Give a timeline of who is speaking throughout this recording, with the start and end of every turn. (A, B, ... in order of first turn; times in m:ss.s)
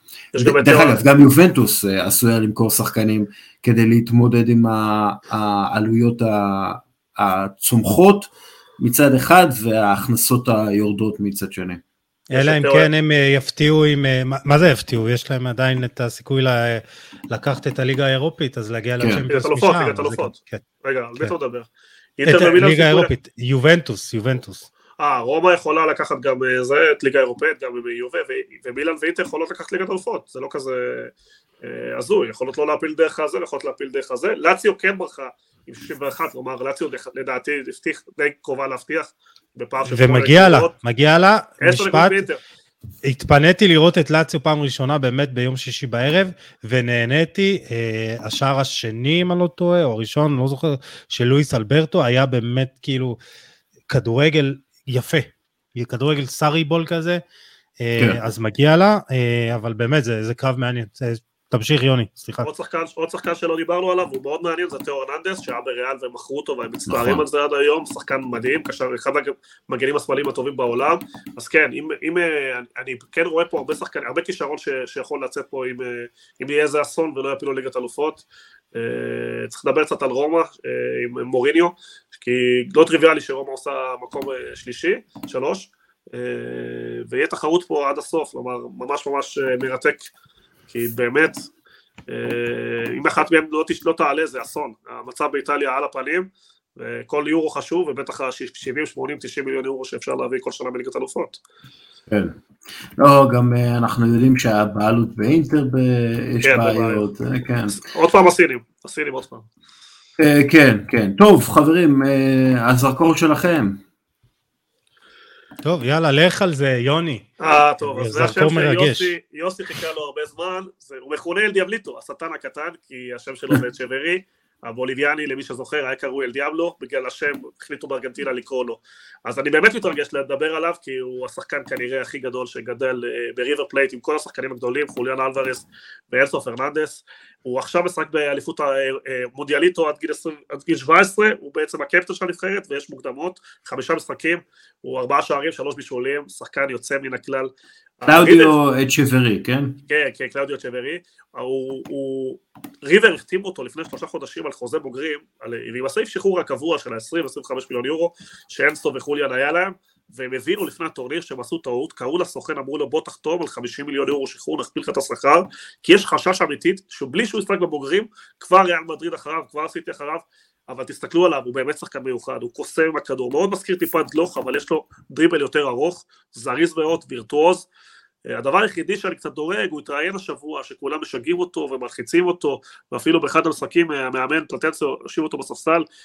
0:00.3-0:01.0 A
0:00.4-0:11.8 B
0:12.3-0:20.6 C
0:12.3-0:12.9 A
0:19.3-0:23.1 A
0:22.2-0:24.7 C
0:25.0-0:40.7 A
0:39.8-0:42.2 C
0:41.6-0:42.4 A
0:43.0-0:53.2 C
0:53.9-0:57.2 C
0:57.8-1:02.5 C
1:02.4-1:30.1 A
1:06.9-1:07.2 B
1:30.7-1:31.5 A
1:32.1-1:41.4 A
1:42.1-1:42.4 B
1:43.0-1:47.8 B
1:46.4-1:47.0 A
1:47.7-1:49.4 A
1:50.2-1:53.8 B
1:55.6-1:57.2 C
1:57.4-2:28.5 A
1:57.8-1:59.1 C
2:28.0-2:29.8 B
2:29.9-2:57.7 A
2:58.2-3:05.8 A